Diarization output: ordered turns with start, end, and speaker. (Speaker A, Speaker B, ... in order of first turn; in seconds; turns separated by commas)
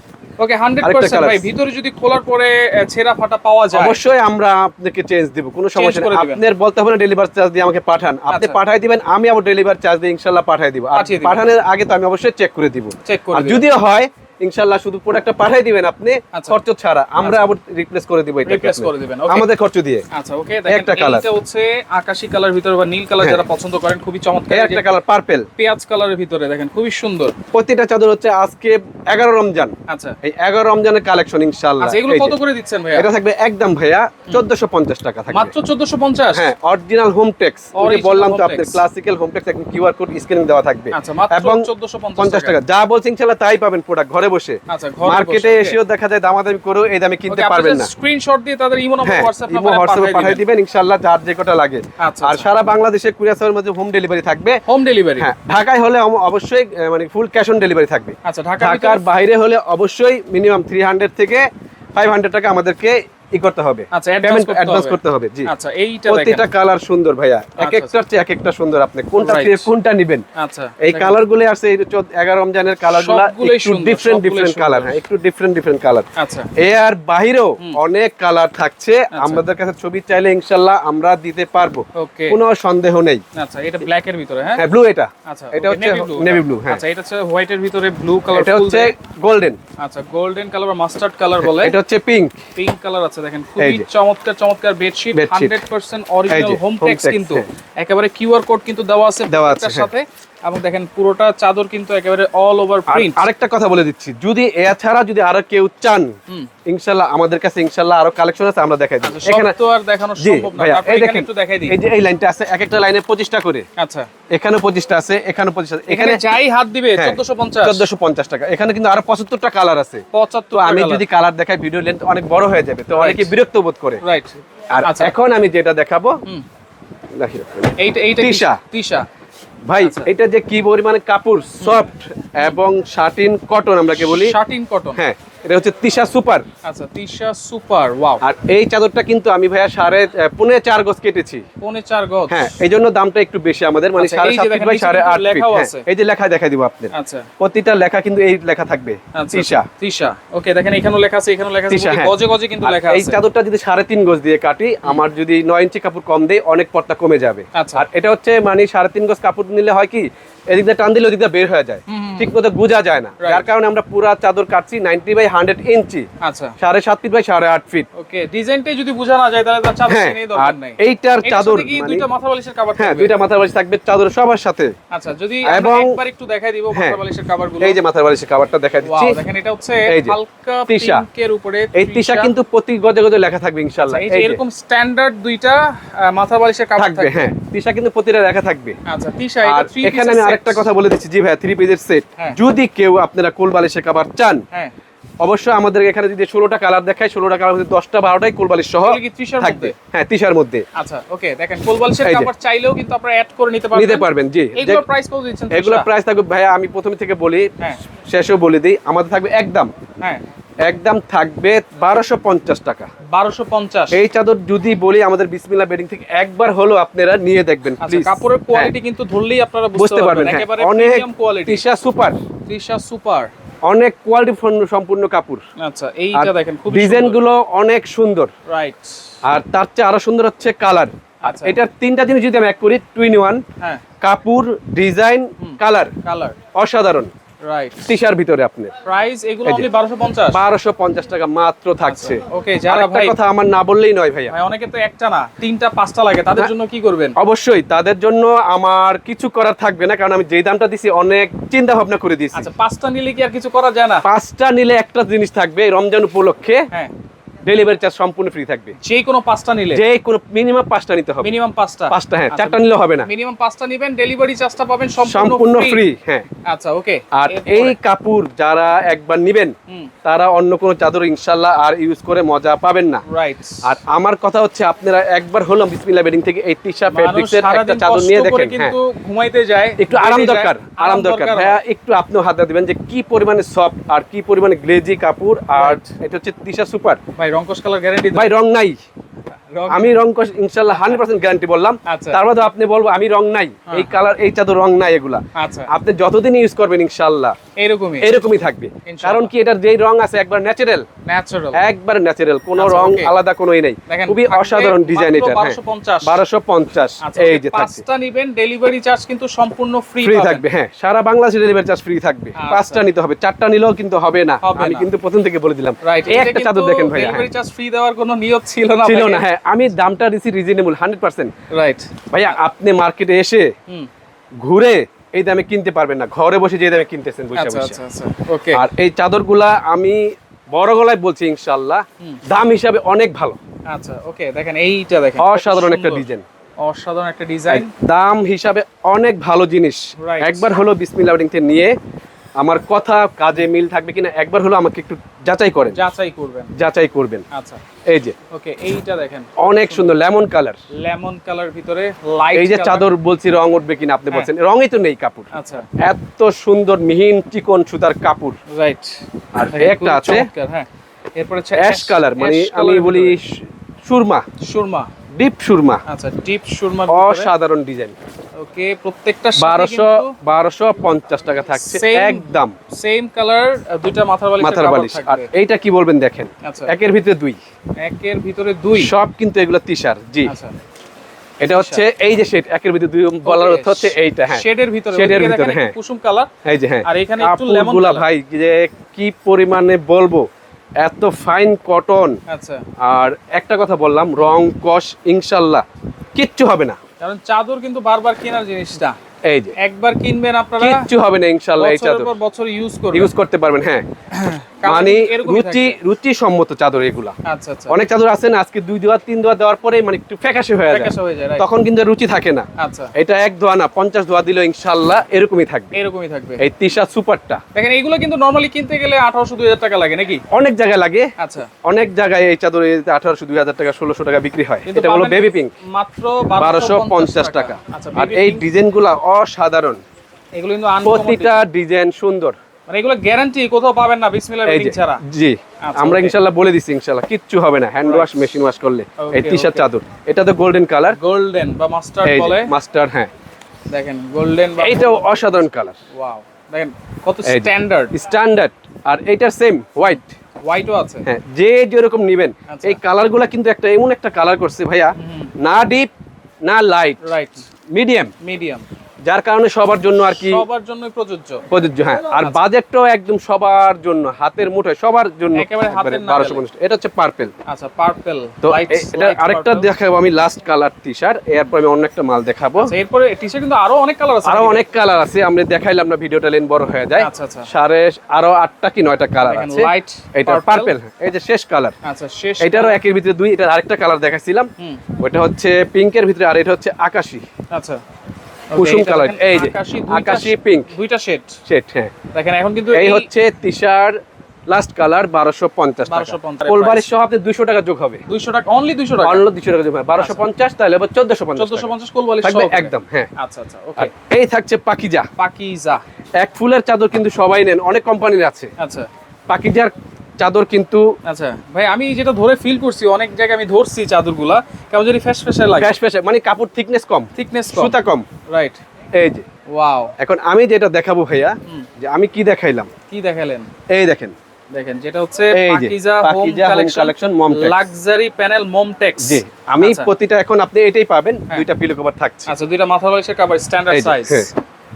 Speaker A: 0.4-4.0, Speaker B: 0.8-1.4, Speaker B: 3.7-20.0, Speaker A: 5.7-6.4, Speaker A: 8.3-8.6, Speaker A: 10.9-11.5, Speaker A: 13.0-13.7, Speaker A: 16.3-16.6, Speaker A: 17.2-17.5, Speaker A: 18.4-19.5, Speaker A: 20.1-24.9, Speaker B: 20.7-21.3, Speaker B: 24.5-25.5, Speaker A: 25.6-27.3, Speaker B: 27.5-32.4, Speaker A: 29.9-30.2, Speaker A: 31.8-33.1, Speaker B: 32.9-35.5, Speaker A: 35.3-36.5, Speaker B: 36.3-47.9, Speaker A: 37.7-38.8, Speaker A: 40.9-42.6, Speaker A: 44.7-45.8, Speaker A: 47.3-50.4, Speaker B: 49.0-54.6, Speaker A: 52.0-52.5, Speaker A: 54.6-55.3, Speaker B: 55.2-65.5, Speaker A: 58.2-59.0, Speaker A: 63.9-66.5, Speaker B: 66.1-70.2, Speaker A: 67.6-68.0, Speaker A: 69.2-69.7, Speaker A: 70.3-71.2, Speaker B: 70.8-83.2, Speaker A: 72.9-74.9, Speaker A: 76.2-76.5, Speaker A: 79.1-79.4, Speaker A: 81.9-82.4, Speaker A: 83.3-84.6, Speaker B: 84.5-86.8, Speaker A: 85.2-88.9, Speaker B: 88.3-89.6, Speaker A: 89.8-91.8, Speaker B: 91.4-92.3, Speaker A: 92.5-103.2, Speaker B: 93.6-93.8, Speaker B: 95.1-95.5, Speaker B: 96.3-97.5, Speaker B: 99.3-99.9, Speaker B: 102.9-106.1, Speaker B: 106.7-109.5, Speaker A: 109.0-111.8, Speaker B: 110.2-113.6, Speaker A: 113.8-114.1, Speaker B: 114.3-116.2, Speaker A: 115.9-117.8, Speaker B: 117.0-124.0, Speaker A: 120.1-121.0, Speaker A: 122.9-123.3, Speaker A: 124.0-125.1, Speaker B: 124.7-126.2, Speaker B: 127.2-128.6, Speaker A: 127.8-129.1, Speaker B: 129.7-134.3, Speaker A: 129.8-130.1, Speaker A: 133.9-135.0, Speaker B: 134.9-136.4, Speaker A: 136.6-138.2, Speaker B: 138.2-141.4, Speaker A: 141.6-142.6, Speaker B: 142.3-149.7, Speaker A: 143.9-145.8, Speaker A: 146.9-147.3, Speaker A: 149.1-153.2, Speaker B: 151.7-166.1, Speaker A: 157.5-157.8, Speaker A: 161.9-162.3, Speaker A: 163.2-163.5, Speaker A: 166.2-166.6, Speaker B: 166.6-167.9, Speaker A: 167.9-173.1, Speaker B: 169.9-172.0, Speaker B: 172.8-174.7, Speaker A: 174.9-177.8, Speaker B: 175.4-176.0, Speaker B: 176.7-177.0, Speaker B: 177.6-179.2, Speaker A: 178.8-182.3, Speaker B: 179.9-180.2, Speaker B: 180.7-181.0, Speaker B: 181.7-184.4, Speaker A: 183.8-187.2, Speaker B: 186.8-188.8, Speaker A: 188.8-190.7, Speaker B: 189.4-194.4, Speaker B: 195.2-200.6, Speaker A: 198.8-199.7, Speaker A: 200.7-205.9, Speaker B: 202.0-202.3, Speaker B: 203.7-204.8, Speaker B: 205.5-207.5, Speaker B: 208.1-209.7, Speaker B: 210.7-212.9, Speaker A: 213.1-214.0, Speaker B: 213.9-218.7, Speaker A: 217.8-221.6, Speaker B: 219.7-222.2, Speaker A: 222.5-223.3, Speaker B: 223.6-225.4, Speaker A: 225.6-227.2, Speaker B: 226.1-228.3, Speaker A: 228.5-228.9, Speaker B: 229.2-233.4, Speaker A: 231.2-231.6, Speaker B: 234.0-235.9, Speaker A: 235.4-236.3, Speaker B: 236.6-237.1, Speaker A: 237.4-237.9, Speaker B: 237.8-238.7, Speaker A: 238.8-240.4, Speaker B: 240.3-244.3, Speaker A: 241.8-243.1, Speaker A: 244.3-247.2, Speaker B: 247.2-252.5, Speaker A: 252.3-254.0, Speaker B: 254.0-256.6, Speaker B: 257.4-258.7, Speaker A: 258.8-259.8, Speaker B: 259.7-261.4, Speaker A: 261.2-265.8, Speaker B: 261.9-263.1, Speaker B: 265.0-266.2, Speaker A: 266.4-267.8, Speaker B: 267.1-273.0, Speaker A: 273.1-273.6, Speaker B: 273.6-278.7, Speaker A: 276.9-281.6, Speaker B: 279.8-287.0, Speaker A: 285.5-285.8, Speaker A: 287.2-288.4, Speaker B: 288.1-288.8, Speaker A: 289.5-290.0, Speaker B: 289.7-297.4, Speaker A: 290.7-291.0, Speaker A: 291.9-292.2, Speaker A: 293.7-293.9, Speaker A: 295.3-295.7, Speaker A: 297.6-299.3, Speaker B: 298.0-300.9, Speaker A: 301.1-301.6, Speaker B: 301.5-307.8, Speaker A: 302.6-303.1, Speaker A: 303.9-306.2, Speaker A: 307.0-310.4, Speaker B: 310.0-317.3, Speaker A: 312.4-312.9, Speaker A: 314.4-314.9, Speaker A: 315.8-319.2, Speaker B: 318.8-321.3, Speaker A: 321.5-322.3, Speaker B: 322.1-323.5, Speaker B: 324.4-327.8, Speaker A: 327.3-328.6, Speaker B: 328.5-333.4, Speaker A: 333.7-336.1, Speaker B: 335.2-336.2, Speaker A: 336.6-337.7, Speaker B: 337.5-341.7, Speaker A: 340.0-340.5, Speaker B: 342.4-345.8, Speaker A: 345.7-346.5, Speaker B: 346.5-347.2, Speaker A: 347.3-347.6, Speaker B: 347.9-348.1, Speaker A: 348.3-350.0, Speaker B: 349.4-350.6, Speaker A: 350.8-352.9, Speaker B: 352.3-358.4, Speaker A: 355.3-355.7, Speaker A: 358.5-363.2, Speaker B: 359.3-360.3, Speaker B: 361.5-364.2, Speaker A: 364.4-364.9, Speaker B: 365.2-365.8, Speaker A: 365.9-367.3, Speaker B: 366.9-367.9, Speaker A: 368.4-370.1, Speaker B: 369.4-372.5, Speaker A: 371.6-375.3, Speaker B: 374.4-377.4, Speaker A: 376.4-376.7, Speaker A: 377.8-378.9, Speaker B: 378.8-380.3, Speaker A: 380.2-380.5, Speaker B: 381.4-385.7, Speaker A: 381.4-381.8, Speaker A: 383.2-386.3, Speaker B: 386.4-390.2, Speaker A: 386.8-388.1, Speaker B: 390.8-392.2, Speaker A: 392.3-392.6, Speaker B: 392.8-395.6, Speaker B: 396.1-396.8, Speaker A: 397.0-399.0, Speaker B: 399.2-399.5, Speaker A: 399.6-400.9, Speaker B: 400.6-402.1, Speaker A: 401.6-403.1, Speaker B: 402.9-403.8, Speaker A: 404.1-405.8, Speaker B: 404.6-407.1, Speaker A: 407.2-407.8, Speaker B: 407.7-415.8, Speaker A: 410.7-411.4, Speaker A: 412.6-412.9, Speaker A: 415.7-416.4, Speaker B: 416.4-417.4, Speaker A: 417.5-420.2, Speaker B: 420.3-421.1, Speaker A: 421.2-421.5, Speaker B: 421.6-425.5, Speaker A: 424.7-428.5, Speaker B: 426.4-429.8, Speaker A: 430.4-431.4, Speaker B: 430.8-432.4, Speaker A: 432.7-435.0, Speaker B: 434.4-441.0, Speaker A: 435.6-436.1, Speaker A: 437.8-438.3, Speaker A: 439.0-439.7, Speaker A: 440.9-442.5, Speaker B: 442.0-443.1, Speaker A: 443.7-445.1, Speaker B: 444.6-445.8, Speaker A: 445.9-447.9, Speaker B: 447.2-450.1, Speaker A: 450.4-451.1, Speaker B: 451.0-455.9, Speaker A: 452.5-452.8, Speaker A: 455.0-455.3, Speaker B: 456.4-457.0, Speaker A: 457.0-457.4, Speaker B: 457.7-458.1, Speaker A: 458.2-458.6, Speaker B: 459.1-460.4, Speaker A: 460.1-461.4, Speaker B: 461.5-467.3, Speaker A: 465.3-466.4, Speaker A: 467.5-469.7, Speaker B: 468.4-472.7, Speaker A: 472.6-474.6, Speaker B: 474.2-481.7, Speaker A: 477.0-477.5, Speaker A: 479.2-480.7, Speaker A: 481.8-482.8, Speaker B: 482.4-487.2, Speaker A: 487.5-487.8, Speaker A: 488.5-491.4, Speaker B: 488.5-490.7, Speaker B: 491.5-491.9, Speaker A: 492.1-493.1, Speaker B: 492.7-498.0, Speaker A: 495.9-496.9, Speaker A: 498.1-499.2, Speaker B: 499.0-503.1, Speaker A: 500.0-500.2, Speaker A: 501.4-503.9, Speaker B: 503.8-505.1, Speaker A: 505.2-505.8, Speaker B: 506.2-508.5, Speaker A: 508.6-508.9, Speaker B: 509.3-510.9, Speaker A: 511.0-515.7, Speaker B: 515.6-518.1, Speaker A: 517.1-517.8, Speaker A: 518.3-518.6, Speaker B: 519.0-519.2, Speaker A: 519.5-519.9, Speaker B: 520.0-522.7, Speaker A: 522.9-523.5, Speaker B: 523.7-524.1, Speaker A: 524.5-529.9, Speaker B: 525.3-527.6, Speaker B: 529.0-532.3, Speaker A: 532.3-534.3, Speaker B: 533.7-534.3